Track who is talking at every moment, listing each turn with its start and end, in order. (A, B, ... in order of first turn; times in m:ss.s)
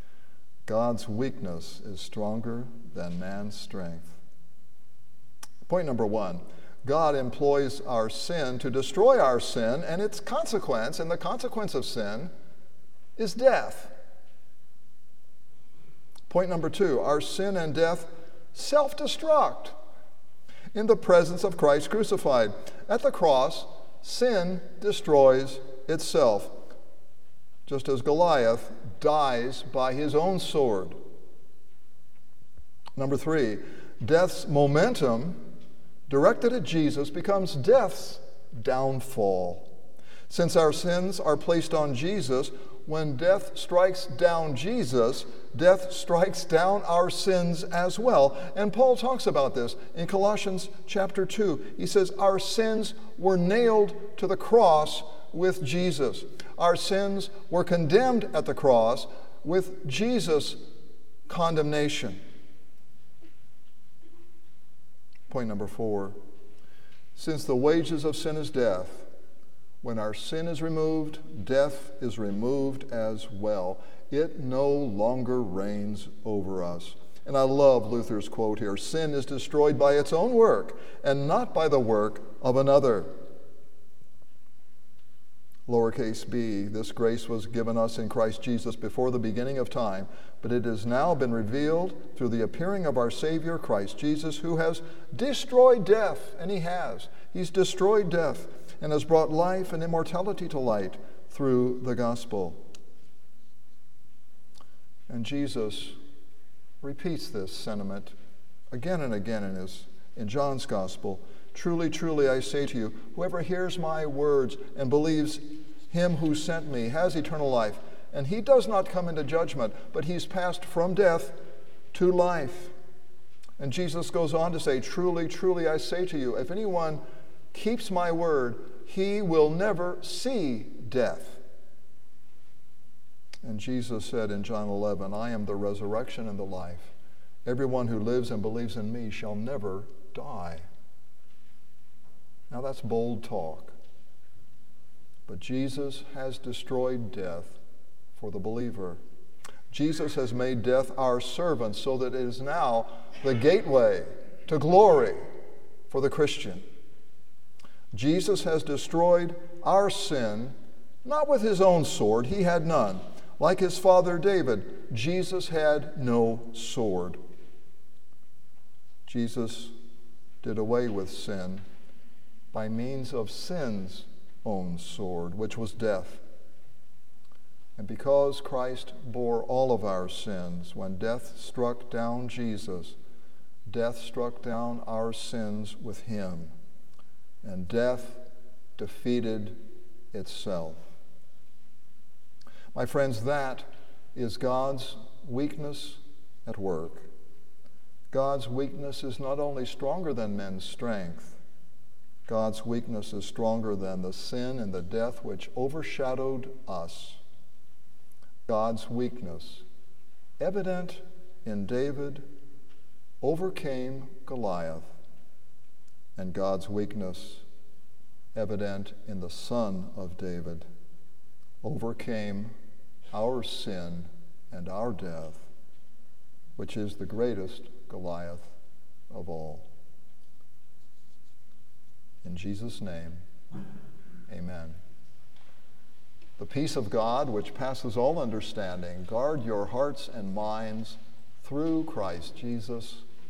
0:00.7-0:04.2 A
0:05.7-0:12.3 A
0:13.2-0:13.9 A
0:16.3-0:19.8 A
0:20.7-0:26.6 A
0:27.7-0:31.0 A
0:33.0-0:35.4 A
0:36.1-0:39.7 A
0:40.3-1:00.6 A
1:01.3-1:02.2 A
1:05.3-1:06.2 A
1:07.2-1:09.1 A
1:09.8-1:23.1 A
1:25.7-1:42.6 A
1:45.1-1:46.0 A
1:46.8-1:48.2 A
1:48.7-2:01.4 A
2:01.9-2:02.7 A
2:03.6-2:07.0 A
2:07.5-2:11.4 A
2:13.4-2:16.9 A
2:17.4-2:20.7 A
2:22.5-2:23.8 A
2:25.3-2:27.6 A
2:28.2-2:29.0 A
2:29.7-2:35.2 A
2:35.9-2:36.6 A
2:37.9-2:47.2 A
2:49.1-2:49.7 A
2:50.4-2:51.6 A
2:52.5-2:56.2 A
2:57.8-3:03.0 A
3:03.7-3:06.5 A
3:07.4-3:08.2 A
3:08.8-3:09.6 A
3:10.1-3:10.9 A
3:12.7-3:17.1 A
3:18.1-3:21.4 A
3:22.3-3:27.2 A
3:28.5-3:29.6 A
3:30.4-3:32.2 A
3:33.2-3:34.9 A
3:36.2-3:37.4 A
3:38.4-3:40.6 A
3:41.6-3:42.5 A
3:43.1-3:45.5 A
3:46.6-3:48.5 A
3:49.1-3:49.7 A
3:52.2-3:53.2 A
3:54.3-3:54.8 A
3:56.4-4:03.0 A